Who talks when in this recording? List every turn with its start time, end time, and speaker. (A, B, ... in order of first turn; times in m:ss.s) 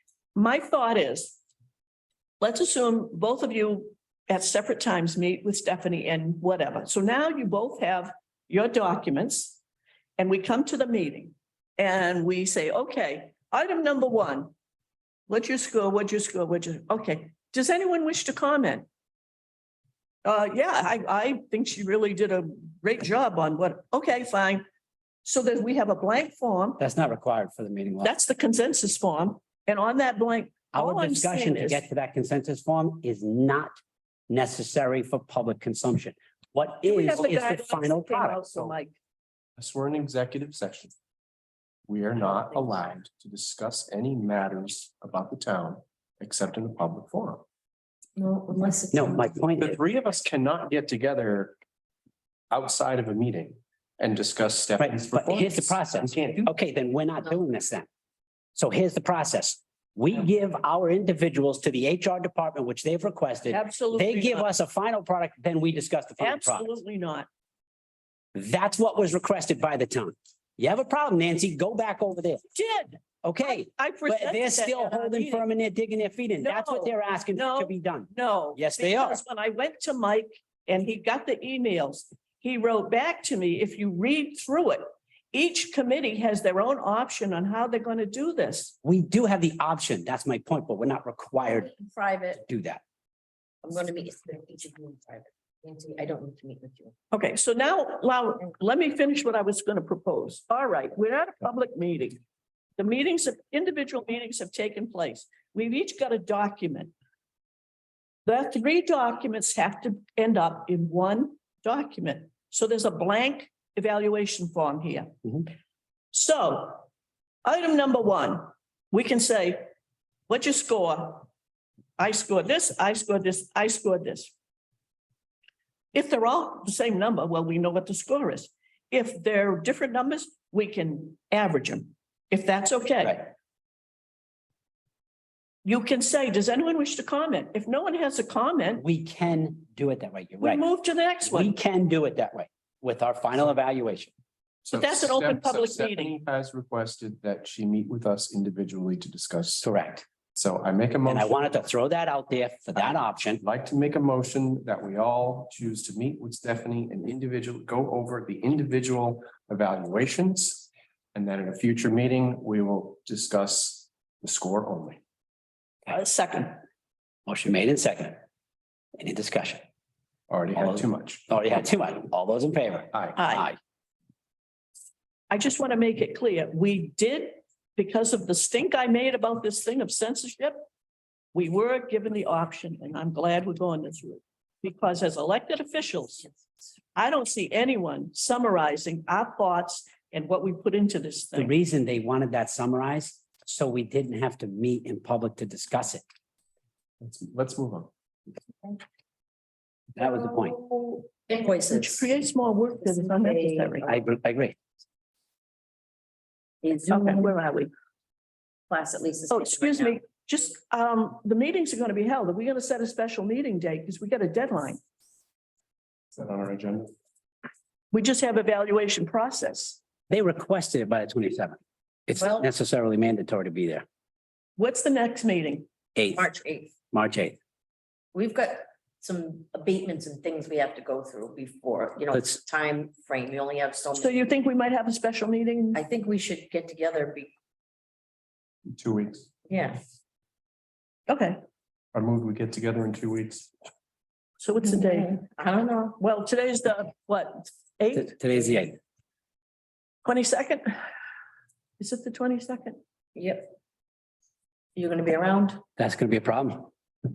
0:00.4-0:01.4 A
0:02.4-0:09.6 A
0:10.2-0:14.5 A
0:15.3-0:18.9 A
0:20.2-0:24.6 A
0:25.2-0:26.8 A
0:26.8-0:28.2 B
0:28.0-0:31.8 A
0:30.7-0:33.8 B
0:34.3-0:38.5 B
0:36.9-0:39.0 A
0:39.6-0:40.9 C
0:41.9-0:47.4 C
0:42.2-0:42.5 D
0:48.2-0:49.4 D
0:48.9-0:49.8 B
0:49.6-0:51.6 C
0:52.5-0:56.5 C
0:54.8-0:57.9 B
0:58.6-1:06.8 B
1:03.5-1:04.5 A
1:06.2-1:07.3 A
1:08.4-1:12.4 B
1:12.5-1:15.5 A
1:13.2-1:19.2 B
1:16.4-1:24.8 A
1:25.3-1:28.7 A
1:28.8-1:31.7 B
1:31.4-1:32.4 D
1:32.4-1:32.8 B
1:33.6-1:36.9 D
1:37.1-1:42.2 A
1:42.8-1:46.9 A
1:48.3-1:55.5 A
1:56.1-1:56.9 A
1:57.4-1:59.6 A
2:00.3-2:01.3 A
2:02.0-2:04.3 A
2:05.9-2:13.3 A
2:15.6-2:18.8 A
2:18.8-2:20.7 B
2:20.4-2:21.5 A
2:21.2-2:24.1 B
2:24.6-2:29.7 C
2:24.7-2:26.1 A
2:29.6-2:30.1 B
2:30.4-2:31.4 C
2:31.0-2:33.4 B
2:32.8-2:45.0 C
2:45.9-2:46.6 A
2:47.3-2:48.2 B
2:49.0-2:49.6 B
2:50.3-2:51.3 C
2:50.6-2:53.6 B
2:52.9-2:53.2 C
2:53.2-2:53.5 A
2:55.3-3:00.6 A
3:01.3-3:06.3 A
3:07.0-3:11.5 A
3:11.4-3:16.0 B
3:17.0-3:17.9 C
3:20.0-3:20.6 B
3:20.0-3:22.2 D
3:21.7-3:23.9 A
3:22.8-3:24.1 D
3:23.8-3:24.6 B
3:26.6-3:27.4 D
3:26.9-3:27.7 A
3:28.7-3:30.1 D
3:29.3-3:34.8 A
3:36.1-3:36.9 C
3:37.9-3:39.8 A
3:40.1-3:43.8 B
3:42.2-3:42.5 D
3:44.6-3:45.7 A
3:46.0-3:46.3 B
3:46.0-3:46.8 D
3:46.9-3:47.4 B
3:48.1-3:54.3 D
3:52.1-3:52.4 B
3:54.0-3:55.8 A
3:55.7-3:57.3 D
3:58.7-3:59.4 C
3:59.5-3:59.8 D
4:01.1-4:01.4 A
4:01.9-4:03.5 C
4:04.4-4:05.2 A
4:04.6-4:06.0 D
4:06.0-4:08.2 A
4:07.9-4:08.8 B
4:10.0-4:10.6 A
4:11.8-4:12.8 A
4:13.2-4:13.6 D
4:14.8-4:15.6 D
4:15.8-4:16.7 B